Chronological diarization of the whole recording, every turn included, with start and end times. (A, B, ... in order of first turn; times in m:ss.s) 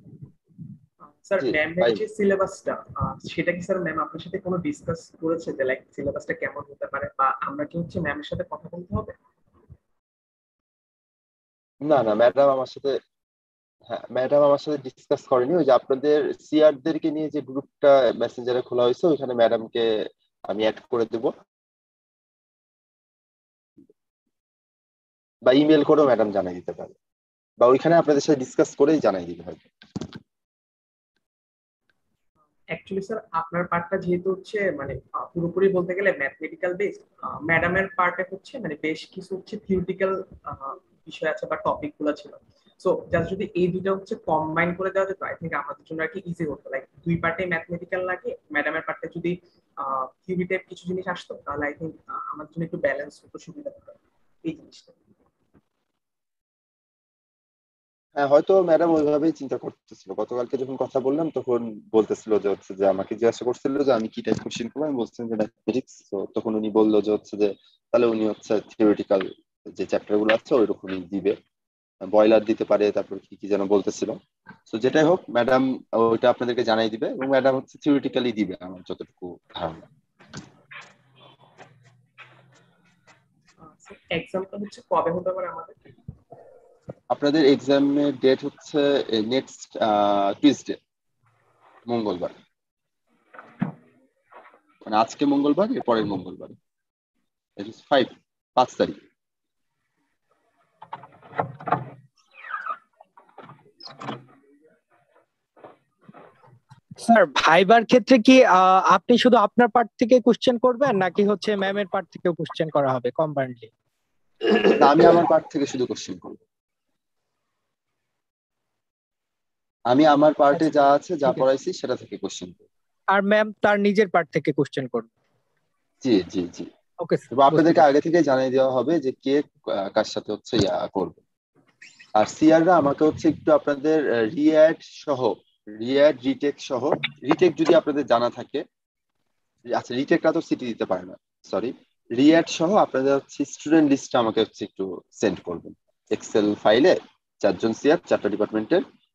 0:01.0-0:09.1 A
0:01.4-0:02.0 B
0:11.8-0:13.0 B
0:13.9-0:19.8 B
0:20.5-0:21.3 B
0:25.4-0:27.0 B
0:27.6-0:29.7 B
0:32.7-0:55.0 A
0:58.2-1:11.4 B
1:12.1-1:14.2 B
1:14.7-1:19.8 B
1:23.6-1:25.8 A
1:27.1-1:30.8 B
1:31.9-1:32.3 B
1:34.8-1:36.6 B
1:37.6-1:39.0 B
1:47.0-1:53.7 C
1:54.7-1:56.4 B
1:59.9-2:02.6 B
2:03.1-2:05.1 C
2:06.0-2:06.7 B
2:07.0-2:07.8 C
2:07.3-2:11.2 B
2:12.2-2:18.6 B
2:19.7-2:28.8 B